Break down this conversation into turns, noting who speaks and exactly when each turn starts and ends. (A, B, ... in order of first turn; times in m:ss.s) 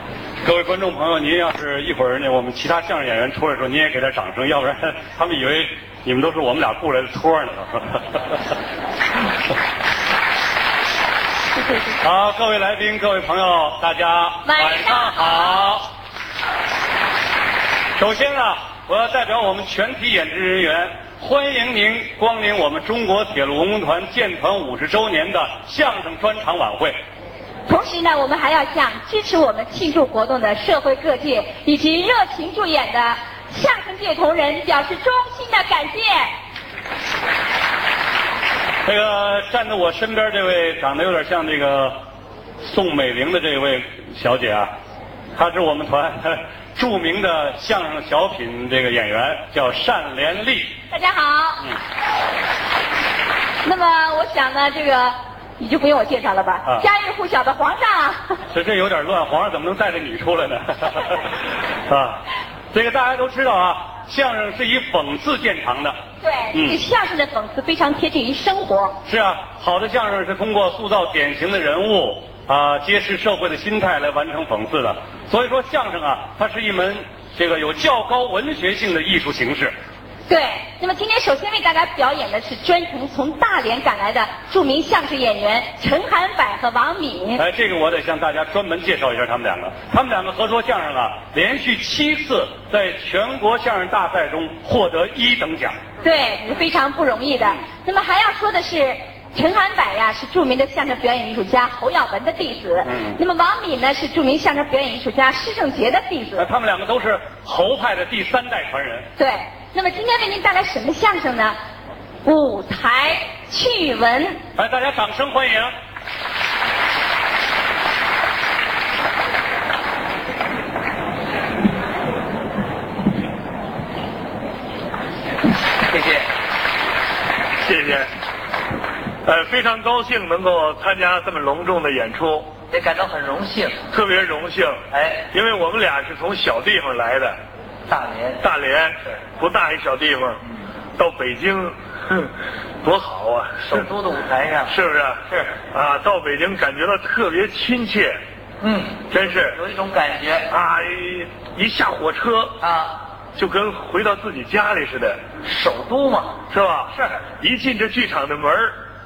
0:00.4-0:08.4 A
0:12.0-0:15.8 A
0:14.4-0:15.6 B
0:18.0-0:27.0 A
0:27.7-0:36.3 B
0:38.8-0:41.9 A
0:42.6-0:44.7 A
0:45.4-0:50.8 A
0:50.9-0:51.6 B
0:53.6-0:58.4 B
0:58.5-1:01.3 A
1:01.9-1:02.2 A
1:02.7-1:06.0 A
1:06.2-1:09.0 B
1:06.5-1:06.8 A
1:09.0-1:19.7 A
1:20.3-1:27.4 B
1:27.4-1:35.8 A
1:36.0-1:46.4 B
1:42.8-1:43.2 A
1:46.4-1:49.0 A
1:49.2-1:51.6 B
1:52.2-1:54.4 B
1:54.6-1:55.7 A
2:05.9-2:06.3 C
2:07.6-2:08.1 D
2:09.2-2:12.5 D
2:12.7-2:13.8 C
2:13.9-2:17.4 D
2:14.9-2:15.2 C
2:17.9-2:18.4 C
2:18.4-2:20.4 D
2:21.0-2:22.3 D
2:22.8-2:23.9 D
2:23.6-2:24.8 C
2:24.7-2:28.2 D
2:28.6-2:30.5 C
2:29.1-2:29.6 D
2:30.5-2:32.6 D
2:32.6-2:33.0 C
2:33.4-2:35.2 D
2:35.4-2:37.2 C
2:36.5-2:38.8 D